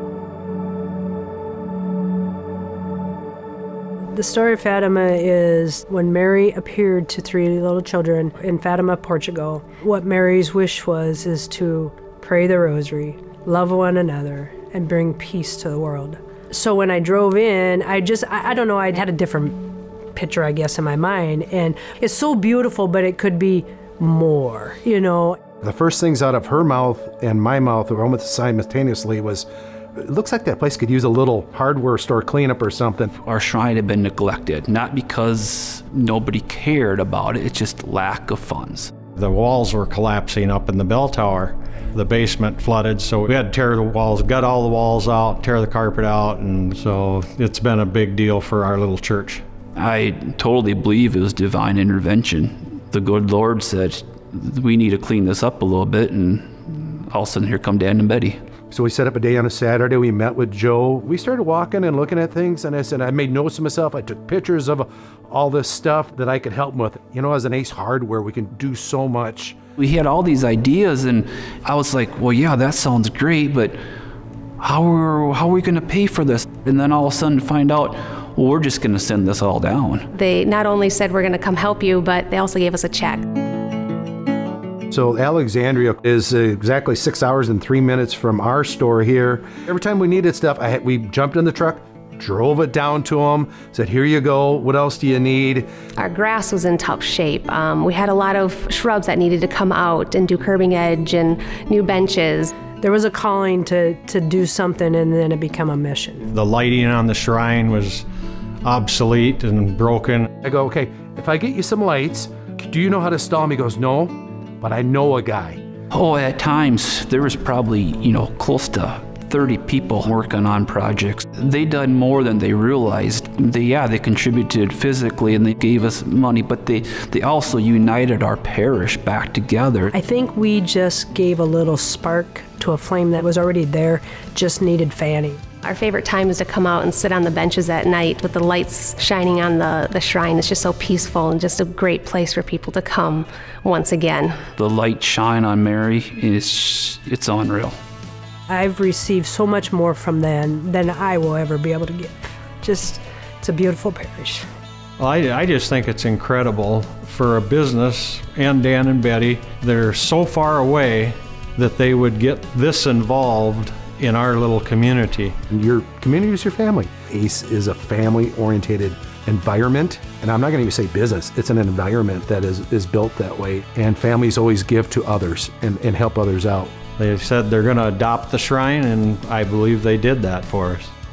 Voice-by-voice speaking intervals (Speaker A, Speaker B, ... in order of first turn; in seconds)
Speaker A: 4.1-25.4, 102.8-106.3, 129.9-135.4, 148.5-154.4
Speaker B: 25.6-33.1, 58.7-69.6, 84.9-95.7, 110.4-115.6, 165.5-176.7
Speaker C: 33.2-38.9, 49.8-58.4, 69.8-73.8, 74.6-80.1, 115.9-129.9, 144.6-147.8
Speaker D: 39.2-49.4, 106.3-108.0, 108.6-110.3, 155.0-165.4, 177.0-180.9
Speaker E: 80.1-83.2, 96.0-102.5, 135.6-144.4